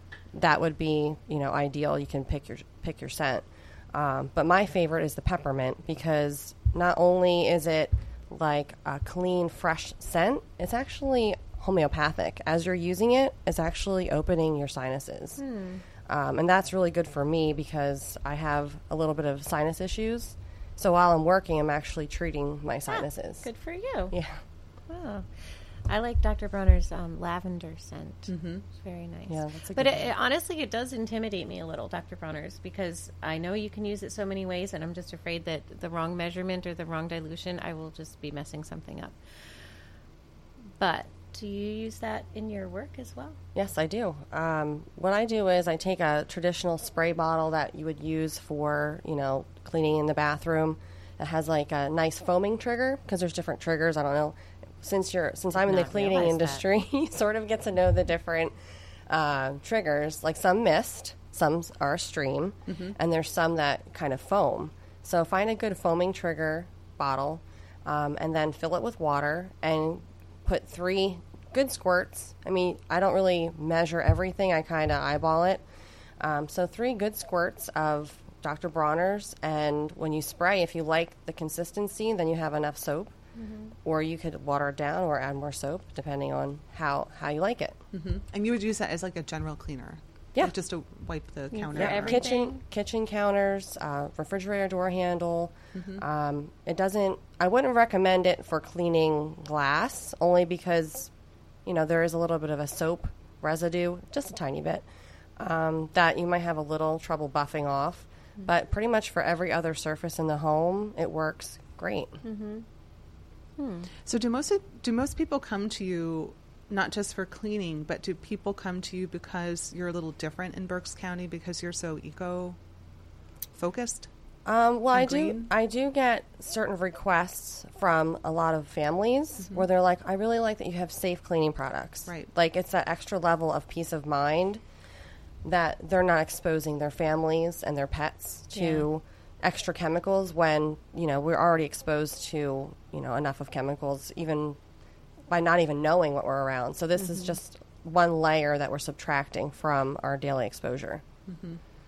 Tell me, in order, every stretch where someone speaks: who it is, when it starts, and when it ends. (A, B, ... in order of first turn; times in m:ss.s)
0:00.3-0:15.4 A
0:15.4-0:15.8 B
0:16.0-0:23.5 A
0:22.9-0:24.1 B
0:24.1-0:24.4 A
0:24.9-0:25.3 B
0:25.9-0:39.2 B
0:28.3-0:28.6 C
0:29.3-0:30.1 A
0:40.8-0:43.4 B
0:43.5-0:58.5 A
0:55.6-0:56.6 B
0:59.1-1:15.6 A
1:02.7-1:02.9 C
1:16.2-1:23.1 A
1:23.4-1:23.7 B
1:23.8-1:27.8 A
1:27.9-1:32.2 C
1:31.5-1:32.6 B
1:31.7-1:41.1 A
1:35.7-1:36.0 C
1:41.6-1:44.8 A
1:45.4-1:52.2 A
1:52.2-1:52.6 B
1:53.6-1:53.9 B
1:54.0-2:02.6 C
2:03.6-2:04.1 C
2:04.4-2:14.6 A
2:04.9-2:05.5 C
2:15.4-2:24.6 A
2:18.5-2:18.9 B
2:25.3-2:31.0 A
2:31.3-2:31.6 C